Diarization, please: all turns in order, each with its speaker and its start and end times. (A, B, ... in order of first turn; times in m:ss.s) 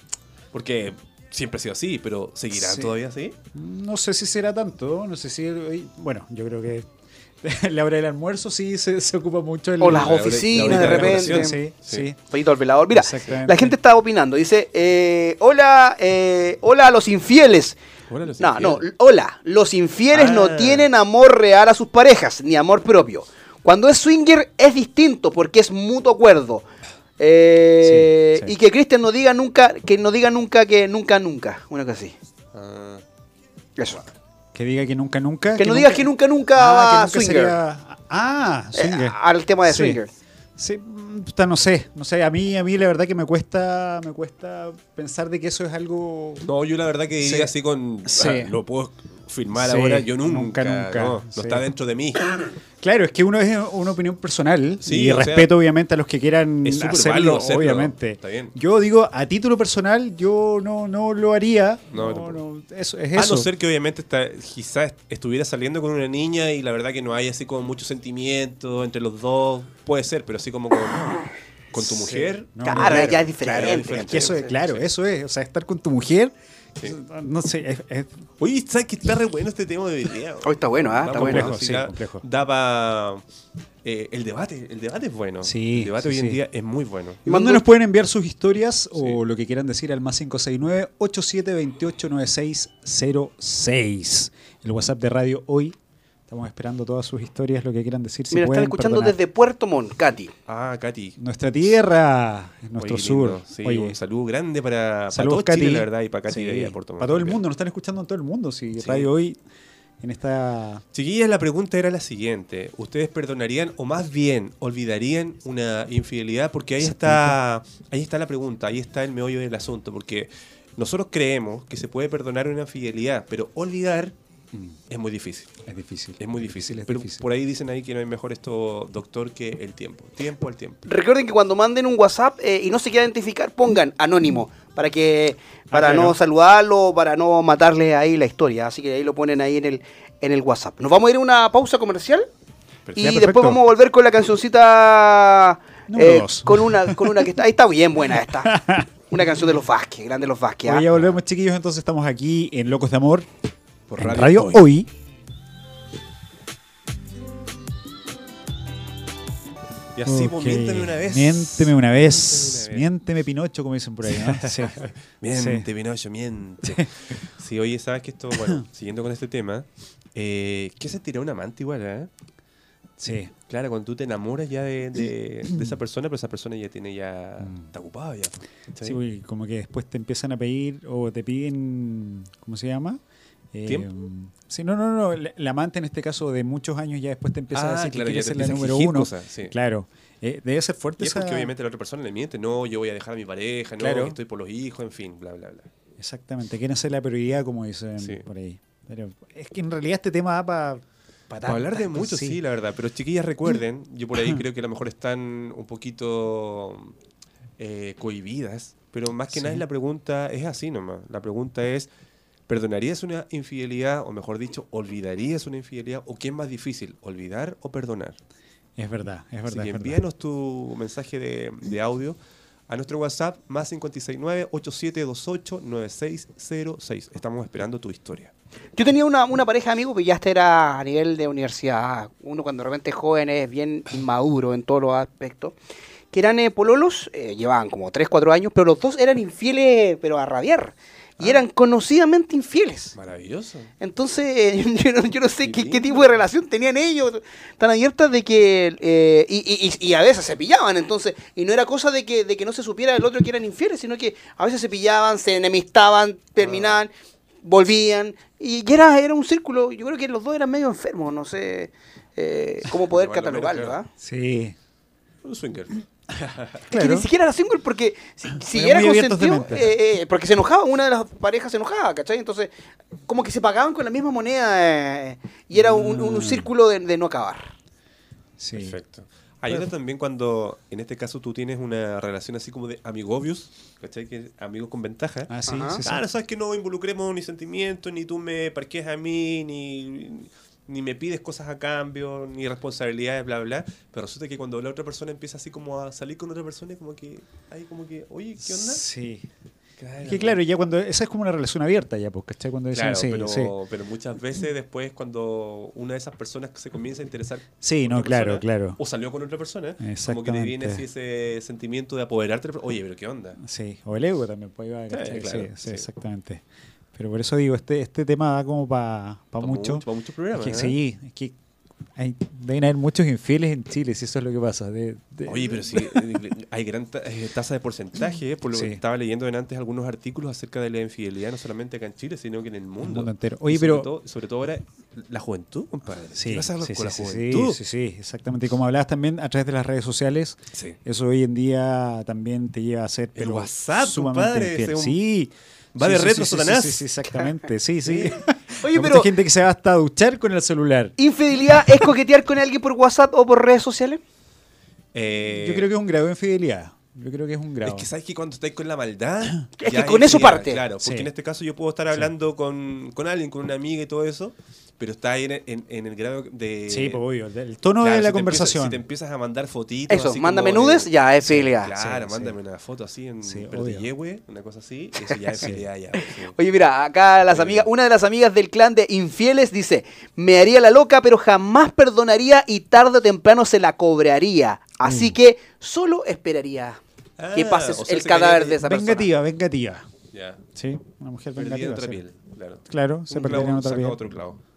0:00.5-0:03.4 A
0:02.5-0:02.9 B
0:03.5-0:06.9 B
0:07.4-0:12.2 B
0:09.8-0:11.6 C
0:09.8-0:12.1 A
0:12.3-0:17.8 C
0:12.9-0:13.8 B
0:18.1-0:18.8 A
0:18.4-0:26.6 C
0:20.1-0:20.9 A
0:27.2-0:32.2 C
0:27.8-0:28.5 B
0:32.5-0:33.0 A
0:33.8-0:34.1 C
0:34.5-0:40.0 B
0:35.6-0:37.6 C
0:38.8-0:40.1 C
0:40.6-0:46.5 B
0:46.4-0:52.4 A
0:47.2-0:47.5 B
0:48.1-0:48.6 B
0:49.6-0:51.6 B
0:52.8-1:03.5 B
0:54.8-0:55.5 A
0:56.6-0:58.5 A
1:01.9-1:02.4 A
1:03.2-1:14.8 A
1:11.8-1:18.2 B
1:12.6-1:14.3 C
1:18.4-1:23.2 A
1:20.4-1:21.5 C
1:21.1-1:22.2 B
1:23.8-1:27.2 A
1:25.4-1:26.4 B
1:27.3-1:27.6 C
1:27.3-1:35.8 B
1:36.3-1:39.2 B
1:38.3-1:40.3 C
1:40.5-1:41.2 A
1:41.2-1:44.0 B
1:42.8-1:47.4 A
1:45.1-1:49.4 B
1:48.8-1:49.1 A
1:50.0-1:50.8 B
1:50.9-2:04.1 A
1:56.8-1:57.4 B
2:04.9-2:05.5 A
2:05.7-2:07.2 B
2:06.2-2:10.8 A
2:10.9-2:22.3 C
2:15.7-2:16.2 B
2:22.9-2:23.2 A
2:23.0-2:30.8 C
2:23.0-2:23.6 B
2:25.9-2:27.2 B
2:28.4-2:28.9 B
2:30.6-2:33.3 B
2:33.9-2:34.6 A
2:34.0-2:34.9 B
2:40.0-2:42.9 A
2:40.0-2:44.8 B
2:44.1-2:52.1 A
2:45.3-2:45.7 B
2:53.0-2:53.3 B
2:53.5-2:59.0 A
2:57.4-2:57.7 B
2:58.8-3:03.0 B
3:03.5-3:11.5 B
3:07.5-3:09.6 A
3:11.0-3:15.7 A
3:13.8-3:14.2 B
3:16.0-3:22.4 B
3:21.4-3:26.9 A
3:27.6-3:31.9 A
3:29.3-3:29.6 B
3:32.5-3:38.2 A
3:38.8-3:40.0 B
3:39.5-3:42.2 A
3:42.7-3:48.3 A
3:48.8-3:55.6 C
3:56.1-4:02.9 C
4:03.0-4:03.7 A
4:03.8-4:16.9 C
4:05.4-4:06.1 A
4:16.4-4:16.8 A
4:17.4-4:23.9 C
4:22.9-4:23.8 A
4:24.0-4:24.6 B
4:25.2-4:26.6 A
4:26.7-4:32.5 C
4:26.7-4:27.1 B
4:28.4-4:29.8 B
4:33.1-4:37.5 C
4:35.6-4:36.5 B
4:38.4-4:38.8 B
4:38.6-4:58.8 A
4:45.3-4:46.0 B
4:45.5-4:45.8 C
4:58.4-4:59.3 B
4:59.8-5:00.4 A
5:00.0-5:03.5 B
5:02.7-5:13.4 A
5:07.6-5:08.8 B
5:09.8-5:10.8 B
5:13.4-5:16.4 B
5:14.9-5:15.9 A
5:16.9-5:21.4 B
5:19.4-5:20.8 A
5:22.0-5:26.0 B
5:25.3-5:37.6 A
5:28.5-5:28.8 B
5:32.8-5:33.9 B
5:36.1-5:50.9 B
5:43.2-5:45.0 A
5:45.7-5:46.9 A
5:47.8-5:48.2 A
5:48.6-5:49.1 C
5:51.0-5:54.0 C
5:54.9-5:55.7 A
5:55.4-5:57.9 B
5:57.6-6:07.0 A
5:59.6-6:00.6 C
6:00.8-6:01.1 B
6:06.7-6:08.8 B
6:07.8-6:16.4 A
6:09.9-6:11.7 C
6:11.2-6:12.4 B
6:13.2-6:13.9 B
6:16.0-6:26.8 C
6:17.3-6:17.7 A
6:24.8-6:25.2 B
6:27.2-6:28.7 A
6:27.3-6:29.1 C
6:28.6-6:29.9 B
6:30.1-6:30.4 A
6:30.6-6:32.0 B
6:31.4-6:34.4 A
6:32.7-6:34.0 B